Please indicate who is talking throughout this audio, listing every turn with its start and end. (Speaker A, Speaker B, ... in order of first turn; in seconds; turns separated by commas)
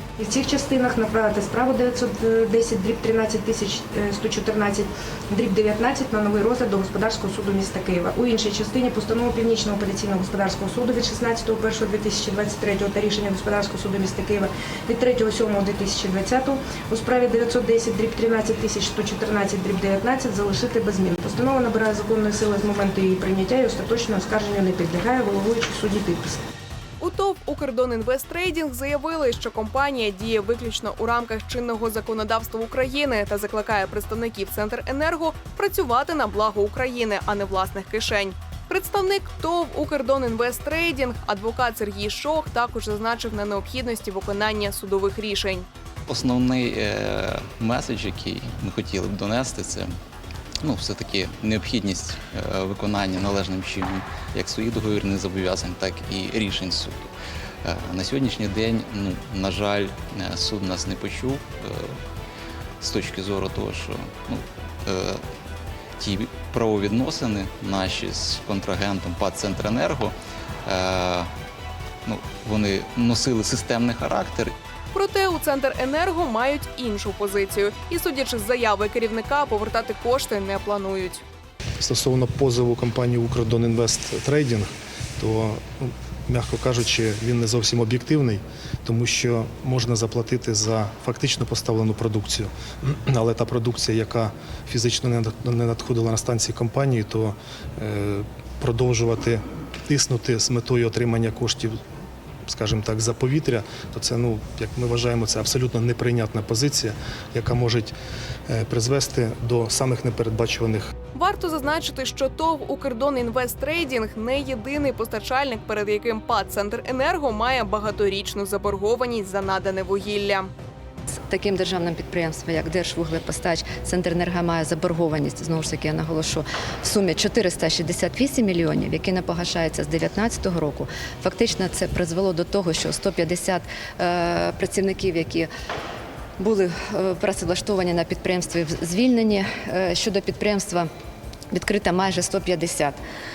Speaker A: 0.2-26.4, Speaker B: 27.0-45.7, Speaker C: 46.1-49.9, Speaker C: 50.6-57.1, Speaker C: 57.6-62.0, Speaker C: 62.8-65.2, Speaker C: 66.0-70.2, Speaker C: 70.7-71.3, Speaker C: 72.0-74.5, Speaker B: 74.9-81.2, Speaker D: 81.8-84.7, Speaker D: 85.2-101.8, Speaker D: 102.5-107.9, Speaker D: 108.5-110.9, Speaker B: 111.2-120.5, Speaker E: 121.3-135.5, Speaker E: 136.4-140.9, Speaker E: 141.5-143.0